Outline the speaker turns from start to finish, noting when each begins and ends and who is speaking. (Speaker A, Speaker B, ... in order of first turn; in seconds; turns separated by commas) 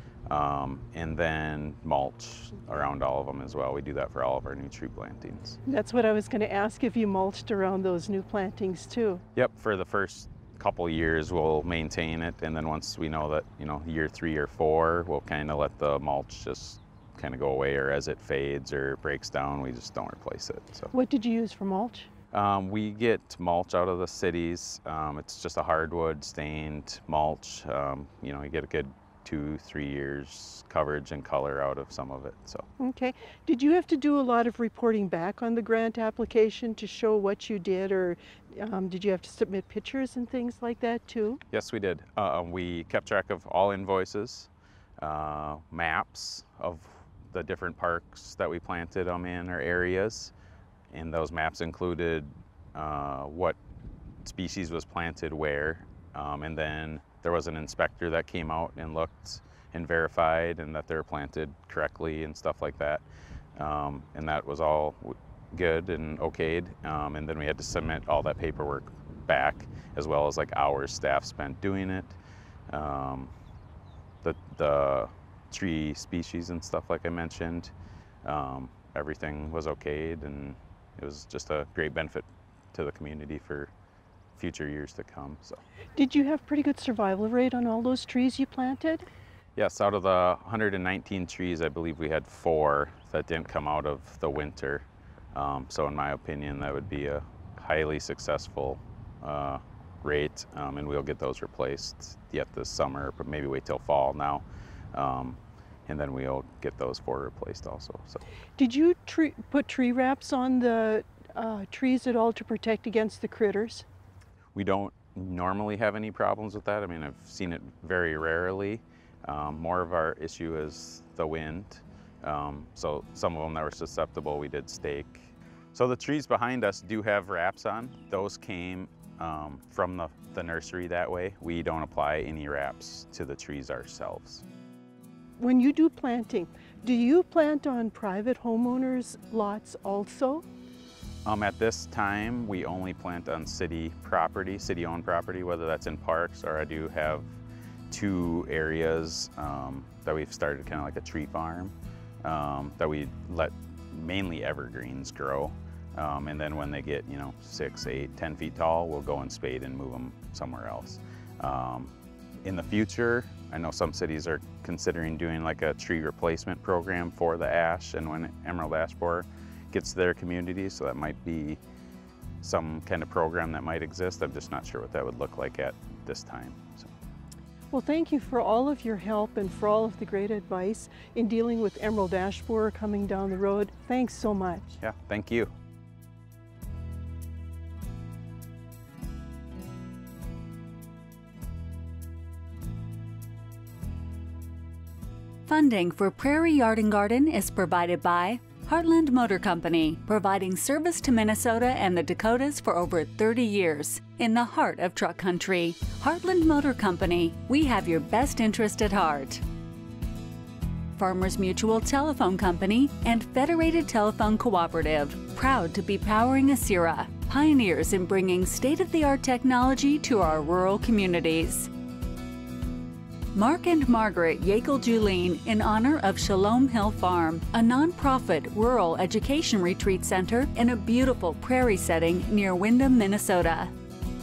Speaker A: 0.3-5.6, Speaker B: 5.7-9.2, Speaker A: 9.3-20.9, Speaker B: 20.9-22.1, Speaker A: 22.3-32.7, Speaker B: 32.8-41.4, Speaker A: 41.5-50.3, Speaker A: 50.9-53.6, Speaker A: 54.2-63.0, Speaker A: 63.5-72.2, Speaker A: 72.7-73.3, Speaker A: 74.2-77.7, Speaker A: 78.2-83.7, Speaker A: 84.3-85.6, Speaker B: 86.0-89.1, Speaker A: 89.5-108.2, Speaker B: 108.6-113.8, Speaker A: 114.5-134.4, Speaker B: 135.4-140.4, Speaker A: 141.2-147.3, Speaker A: 147.9-161.9, Speaker A: 162.4-171.6, Speaker A: 172.4-176.9, Speaker B: 177.7-184.8, Speaker A: 184.8-185.5, Speaker C: 195.5-209.4, Speaker C: 210.9-221.7, Speaker C: 223.3-233.7